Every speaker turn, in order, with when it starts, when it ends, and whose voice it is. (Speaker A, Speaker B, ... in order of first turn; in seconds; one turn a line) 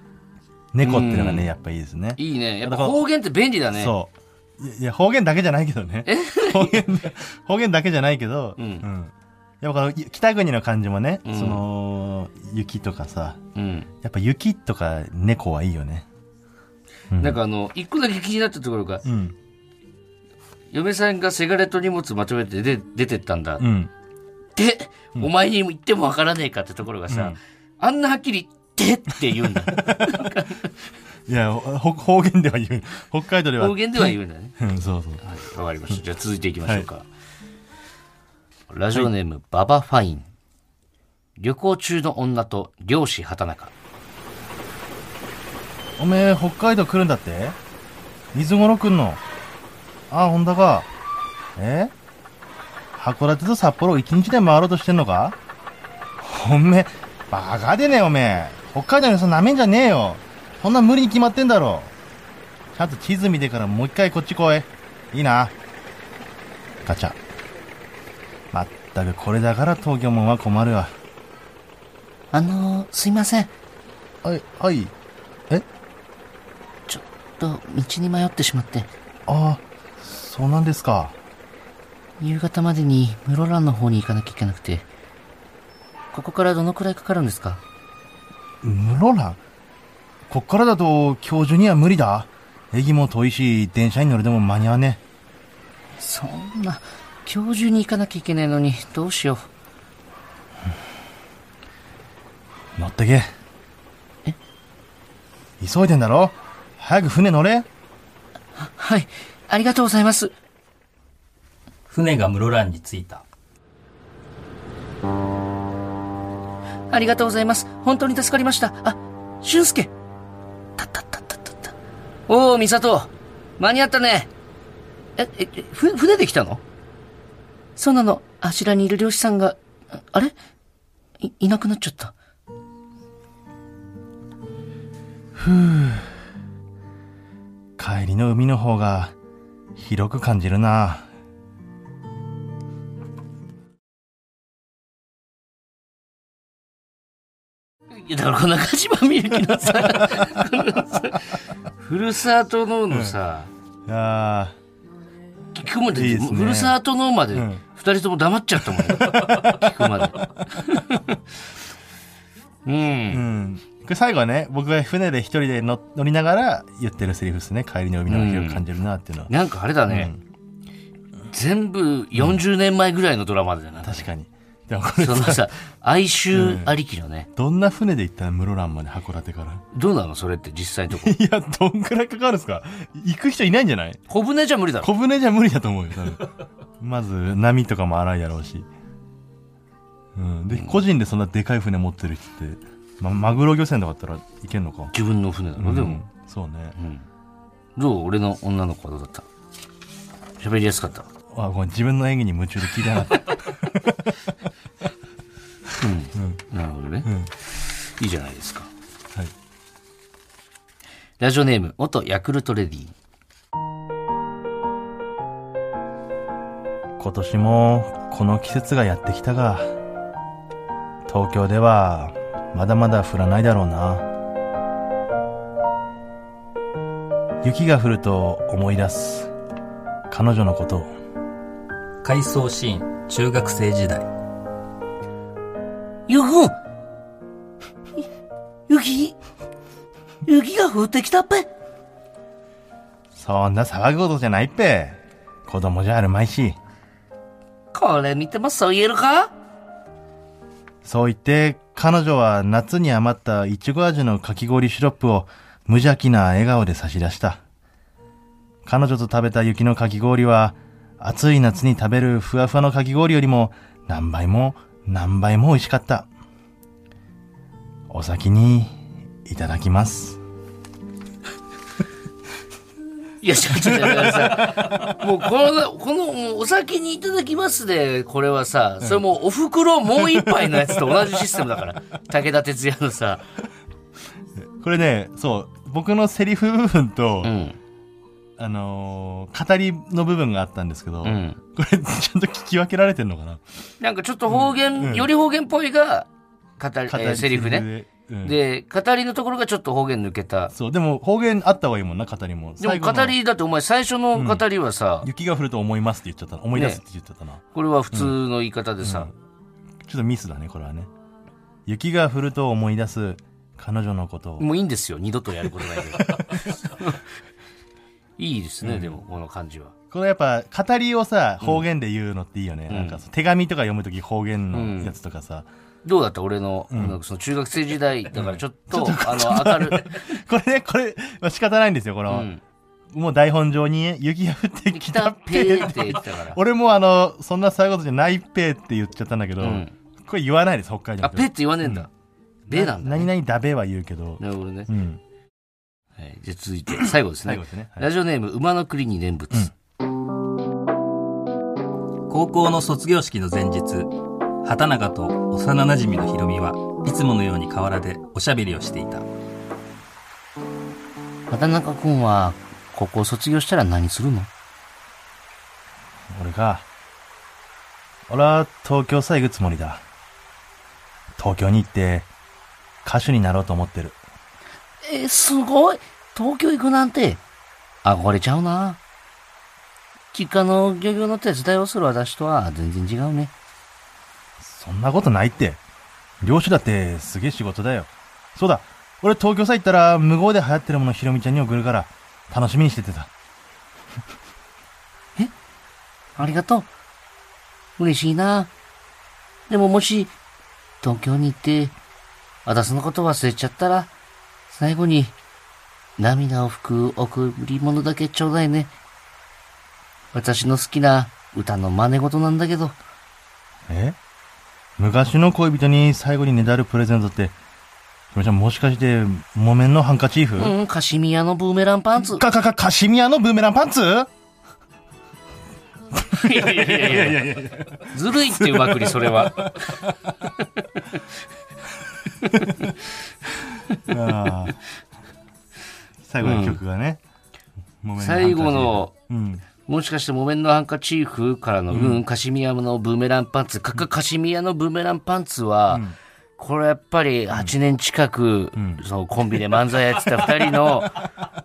Speaker A: 0.7-3.0
Speaker B: 0.8-1.5
Speaker B: 2.2-3.9
Speaker A: 3.7-13.4
Speaker B: 6.1-6.9
Speaker B: 8.6-8.9
Speaker B: 11.2-11.6
Speaker B: 13.6-13.9
Speaker A: 14.0-16.1
Speaker A: 17.1-17.4
Speaker B: 17.2-19.0
Speaker A: 19.0-19.4
Speaker B: 20.7-23.6
Speaker A: 23.6-23.9
Speaker B: 24.6-30.7
Speaker A: 27.1-27.4
Speaker A: 29.7-30.3
Speaker A: 31.3-35.2
Speaker B: 33.6-34.6
Speaker B: 35.2-37.1
Speaker B: 38.7-40.3
Speaker B: 41.4-43.7
Speaker A: 46.0-47.6
Speaker A: 48.3-49.2
Speaker A: 50.1-50.9
Speaker A: 51.6-51.9
Speaker A: 53.0-55.4
Speaker A: 56.2-61.9
Speaker A: 62.7-65.5
Speaker A: 66.8-67.2
Speaker A: 68.5-70.9
Speaker B: 72.3-73.5
Speaker A: 74.2-74.9
Speaker B: 76.9-78.9
Speaker A: 79.3-81.2
Speaker B: 82.2-84.9
Speaker B: 86.1-87.6
Speaker A: 88.6-89.4
Speaker A: 90.3-95.0
Speaker B: 96.0-99.5
Speaker A: 102.8-103.3
Speaker A: 105.6-107.7
Speaker B: 108.6-110.3
Speaker C: 111.9-113.2
Speaker B: 116.9-119.9
Speaker B: 120.8-121.8
Speaker B: 122.3-124.3
Speaker B: 125.2-126.6
Speaker B: 127.8-130.3
Speaker B: 131.2-132.1
Speaker A: 135.4-136.1
Speaker A: 137.8-139.1
Speaker A: 139.8-141.1
Speaker B: 147.9-153.5
Speaker A: 152.9-153.2
Speaker A: 153.9-154.6
Speaker B: 155.5-161.2
Speaker A: 155.9-156.8
Speaker A: 157.3-157.6
Speaker A: 158.7-160.2
Speaker B: 162.7-163.2
Speaker A: 163.1-169.3
Speaker B: 168.1-168.6
Speaker B: 169.3-170.1
Speaker A: 169.9-170.2
Speaker B: 171.3-174.1
Speaker A: 173.8-175.5
Speaker B: 175.0-177.3
Speaker A: 176.3-176.7
Speaker A: 177.4-179.6
Speaker B: 179.7-181.1
Speaker A: 180.9-184.0
Speaker B: 184.1-184.9
Speaker A: 184.8-188.7
Speaker A: 190.1-194.9
Speaker B: 190.5-190.8
Speaker B: 194.9-196.0
Speaker A: 195.6-196.8
Speaker B: 196.8-197.1
Speaker B: 197.8-199.3
Speaker B: 200.4-201.1
Speaker A: 201.3-204.1
Speaker B: 205.8-208.7
Speaker B: 211.2-212.9
Speaker A: 217.0-219.7
Speaker A: 221.1-224.1
Speaker A: 227.4-229.3
Speaker A: 230.1-230.9
Speaker C: 232.0-234.1
Speaker B: 236.1-236.6
Speaker B: 238.7-239.2
Speaker B: 240.3-241.5
Speaker A: 243.1-246.6
Speaker B: 247.7-249.3
Speaker A: 250.8-257.4
Speaker A: 258.6-266.1
Speaker A: 267.9-270.2
Speaker B: 273.2-283.2
Speaker A: 273.6-274.8
Speaker A: 280.0-281.2
Speaker A: 284.4-287.3
Speaker B: 287.2-287.6
Speaker A: 288.4-293.4
Speaker B: 291.0-291.4
Speaker B: 293.8-296.1
Speaker A: 294.3-295.1
Speaker B: 296.6-297.7
Speaker A: 296.9-298.4
Speaker B: 298.2-300.5
Speaker A: 300.5-303.1
Speaker B: 302.6-305.1
Speaker A: 304.1-304.4
Speaker A: 305.0-308.1
Speaker B: 306.6-306.8
Speaker B: 307.5-309.1
Speaker A: 308.8-309.1
Speaker A: 309.8-310.9
Speaker A: 311.6-314.5
Speaker B: 314.4-317.0
Speaker A: 315.8-316.5
Speaker B: 318.2-319.7
Speaker A: 318.6-319.0
Speaker A: 319.9-325.5
Speaker B: 322.7-323.0
Speaker B: 324.5-325.0
Speaker B: 325.8-330.1
Speaker A: 326.7-327.0
Speaker A: 328.1-332.3
Speaker B: 332.1-332.4
Speaker A: 332.9-341.9
Speaker B: 334.7-336.4
Speaker B: 339.4-339.7
Speaker B: 341.0-341.9
Speaker B: 342.5-343.1
Speaker A: 342.5-345.0
Speaker B: 344.2-344.7
Speaker B: 346.0-349.5
Speaker A: 347.2-347.9
Speaker C: 352.1-353.9
Speaker C: 354.4-359.1
Speaker B: 361.3-364.3
Speaker A: 366.1-366.6
Speaker A: 368.1-369.8
Speaker A: 371.2-372.1
Speaker A: 372.8-374.0
Speaker B: 374.8-377.2
Speaker B: 377.8-378.8
Speaker B: 380.1-383.3
Speaker A: 384.4-385.6
Speaker A: 386.2-393.1
Speaker B: 396.1-396.7
Speaker B: 397.8-398.5
Speaker B: 399.5-400.1
Speaker B: 400.8-401.8
Speaker B: 402.4-403.9
Speaker B: 404.5-405.1
Speaker B: 406.0-408.7
Speaker B: 410.1-412.8
Speaker A: 413.7-414.0
Speaker A: 414.8-417.4
Speaker A: 418.1-420.5
Speaker B: 420.4-422.2
Speaker A: 422.0-424.1
Speaker A: 426.0-430.1
Speaker B: 426.1-429.8
Speaker B: 432.2-432.7
Speaker A: 432.3-432.7
Speaker A: 433.7-434.6
Speaker A: 436.0-437.0
Speaker B: 436.2-436.6
Speaker A: 437.8-439.4
Speaker B: 438.0-438.9
Speaker B: 439.6-445.9
Speaker A: 441.7-442.0
Speaker A: 445.7-446.0
Speaker B: 446.4-451.0
Speaker A: 448.6-448.8